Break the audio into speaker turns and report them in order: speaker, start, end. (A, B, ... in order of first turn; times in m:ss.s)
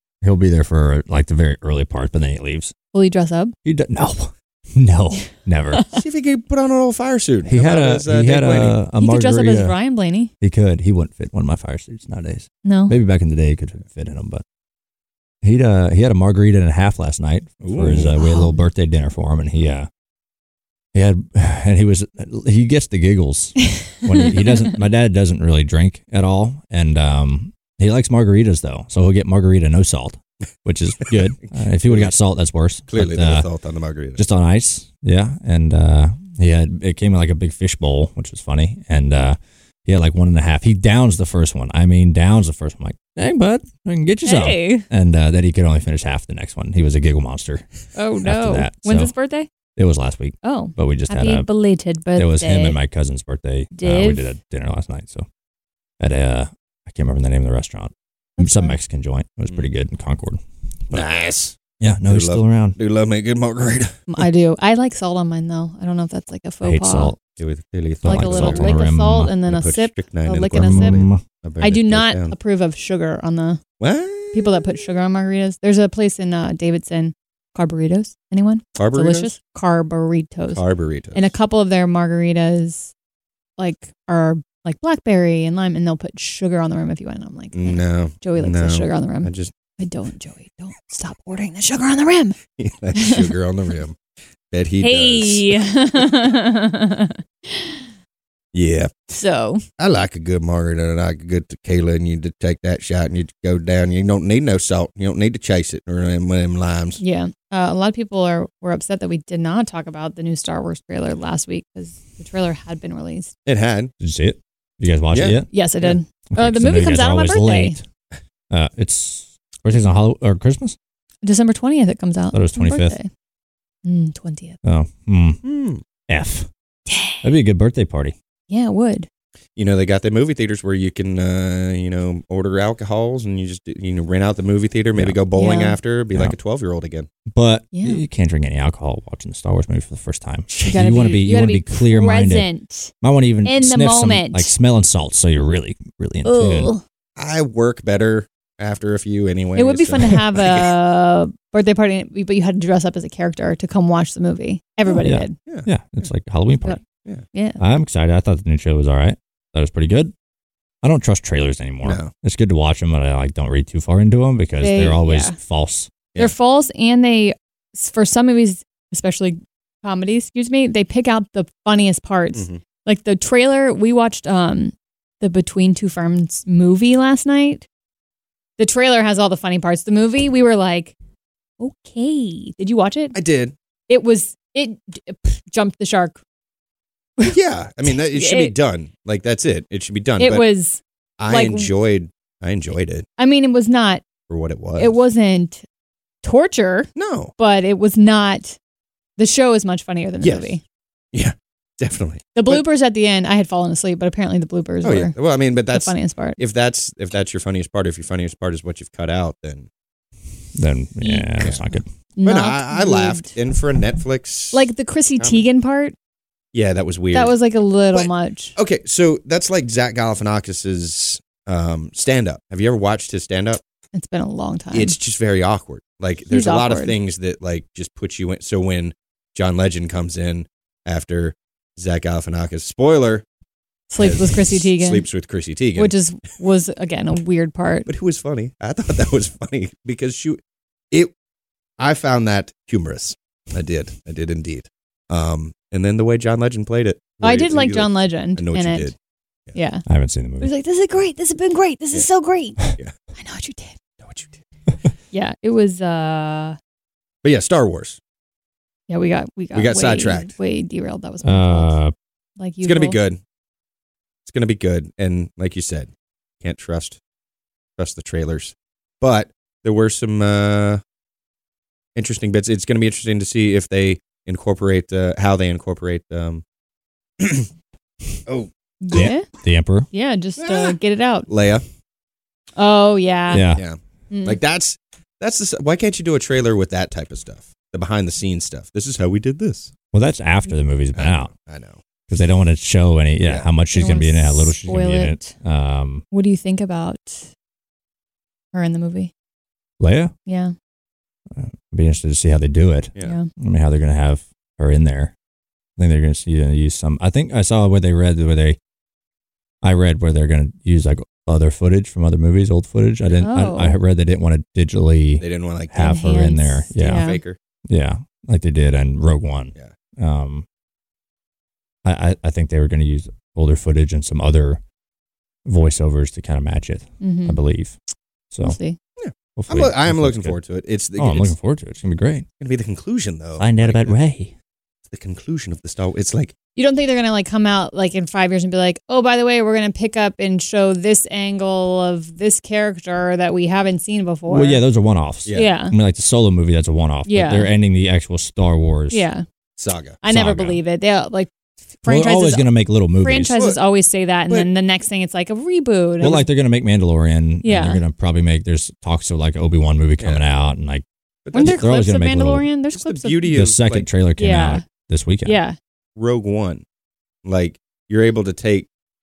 0:00.2-0:02.7 A
0:02.9-0:03.6 B
0:03.6-0:05.8 A
0:05.9-0:08.8 C
0:07.5-0:09.8 A
0:09.0-0:10.3 B
0:10.4-0:14.4 A
0:12.6-0:13.0 B
0:15.4-0:19.9 A
0:17.6-0:18.2 C
0:18.2-0:18.6 B
0:20.9-0:33.5 A
0:31.9-0:32.1 C
0:32.9-0:34.2 C
0:34.2-0:47.6 A
0:44.2-0:44.9 B
0:48.0-0:49.5 B
0:48.2-0:49.1 A
0:49.8-0:51.5 A
0:50.4-0:52.8 B
0:52.2-0:55.3 A
0:53.8-0:54.3 B
0:56.0-1:00.4 A
0:58.4-0:58.8 B
1:00.9-1:04.1 C
1:01.8-1:02.8 A
1:04.1-1:07.1 B
1:06.6-1:07.2 A
1:07.4-1:08.8 C
1:08.0-1:09.4 A
1:08.0-1:11.0 B
1:09.4-1:12.4 C
1:10.6-1:11.2 A
1:11.6-1:13.6 B
1:13.8-1:14.7 C
1:14.3-1:20.6 B
1:18.8-1:19.3 C
1:20.5-1:21.3 C
1:21.1-1:22.9 B
1:23.6-1:32.4 B
1:27.5-1:29.5 C
1:32.6-1:34.0 C
1:32.9-1:33.3 B
1:34.5-1:36.0 C
1:34.8-1:37.9 B
1:38.5-1:38.9 C
1:39.1-1:39.6 B
1:39.8-1:47.0 C
1:47.0-1:53.3 B
1:53.5-1:53.9 C
1:54.0-1:55.5 A
1:55.1-1:56.0 C
1:55.5-1:57.8 B
1:56.3-1:57.8 A
1:58.5-2:00.8 A
2:01.2-2:03.1 B
2:02.3-2:03.0 A
2:03.8-2:04.6 B
2:04.6-2:05.4 A
2:05.4-2:05.8 C
2:06.1-2:06.5 A
2:06.9-2:07.3 B
2:07.2-2:08.2 A
2:08.5-2:09.1 B
2:09.6-2:17.1 C
2:15.3-2:15.8 B
2:17.3-2:22.5 A
2:17.7-2:18.0 B
2:20.5-2:20.8 C
2:20.6-2:22.9 B
2:23.0-2:26.7 A
2:23.4-2:24.5 B
2:26.2-2:26.8 B
2:27.2-2:30.7 C
2:29.6-2:35.4 B
2:34.9-2:36.8 A
2:35.4-2:36.1 C
2:37.3-2:37.6 B
2:37.6-2:40.1 A
2:40.8-2:45.9 A
2:41.8-2:42.1 C
2:44.6-2:45.4 B
2:46.2-2:57.7 B
2:52.3-2:52.6 C
2:58.6-3:01.0 B
3:01.6-3:03.2 B
3:03.1-3:03.6 C
3:03.9-3:06.2 B
3:07.2-3:08.5 B
3:07.2-3:10.4 C
3:10.2-3:11.7 B
3:11.2-3:13.1 C
3:13.2-3:14.0 B
3:14.3-3:15.0 C
3:14.8-3:15.6 B
3:16.2-3:18.6 B
3:17.0-3:17.3 C
3:19.2-3:20.6 B
3:20.2-3:20.5 C
3:21.1-3:22.6 C
3:22.4-3:25.2 B
3:24.8-3:29.7 C
3:25.7-3:26.4 B
3:30.6-3:31.8 A
3:31.0-3:31.4 B
3:31.4-3:35.4 C
3:32.2-3:33.3 B
3:34.5-3:36.0 B
3:36.5-3:37.4 C
3:37.1-3:38.6 B
3:37.9-3:43.6 C
3:43.9-3:45.0 B
3:44.7-3:53.3 C
3:46.3-3:47.0 B
3:53.9-3:55.1 B
3:54.0-3:55.9 C
3:55.8-3:57.9 B
3:57.9-4:01.1 C
4:01.8-4:09.0 C
4:07.2-4:08.9 B
4:09.6-4:09.8 B
4:09.9-4:10.5 A
4:10.4-4:12.6 B
4:13.2-4:13.8 B
4:14.0-4:14.4 C
4:15.1-4:16.6 B
4:17.2-4:18.0 C
4:18.9-4:21.8 B
4:19.5-4:20.3 C
4:21.2-4:21.9 A
4:22.4-4:23.0 B
4:22.6-4:23.2 C
4:24.2-4:25.9 C
4:26.4-4:27.0 C
4:27.8-4:30.8 C
4:32.0-4:36.4 C
4:37.2-4:37.5 C
4:38.3-4:39.1 C
4:38.8-4:39.3 B
4:38.9-4:39.9 A
4:39.9-4:41.3 B
4:40.4-4:40.8 C
4:41.3-4:41.6 C
4:42.6-4:43.4 B
4:43.3-4:43.6 A
4:43.5-4:49.7 C
4:44.1-4:44.4 B
4:49.9-4:51.3 A
4:50.9-4:51.8 C
4:52.1-4:56.0 A
4:53.7-4:55.3 B
4:56.1-4:57.3 B
4:58.5-4:59.1 B
4:59.8-5:00.1 A
5:00.3-5:00.5 B
5:01.3-5:05.1 A
5:03.0-5:03.3 B
5:05.8-5:08.6 A
5:09.6-5:17.1 A
5:13.2-5:13.8 B
5:15.2-5:15.8 C
5:15.8-5:17.2 B
5:16.8-5:17.4 C
5:17.7-5:20.4 A
5:21.8-5:24.6 A
5:25.5-5:27.8 A
5:27.0-5:27.4 B
5:28.3-5:28.6 A
5:28.4-5:28.8 B
5:29.0-5:31.4 C
5:29.4-5:30.4 A
5:31.0-5:32.3 A
5:32.4-5:34.0 C
5:33.4-5:34.3 A
5:34.9-5:36.3 C
5:36.6-5:44.6 B
5:44.3-5:49.0 A
5:45.3-5:45.5 C
5:45.3-5:45.8 B
5:47.1-5:47.5 B
5:48.9-5:49.2 B
5:49.6-5:50.0 C
5:50.0-5:52.5 B
5:50.1-5:50.6 A
5:51.9-5:53.4 A
5:53.0-5:56.3 B
5:53.3-5:53.6 C
5:56.0-6:00.8 A
5:57.4-5:57.8 B
6:01.3-6:01.7 C
6:01.3-6:03.4 B
6:01.4-6:02.5 A
6:02.7-6:03.9 C
6:03.3-6:05.4 A
6:04.2-6:04.6 B
6:05.2-6:05.6 B
6:06.0-6:06.6 C
6:07.2-6:08.7 C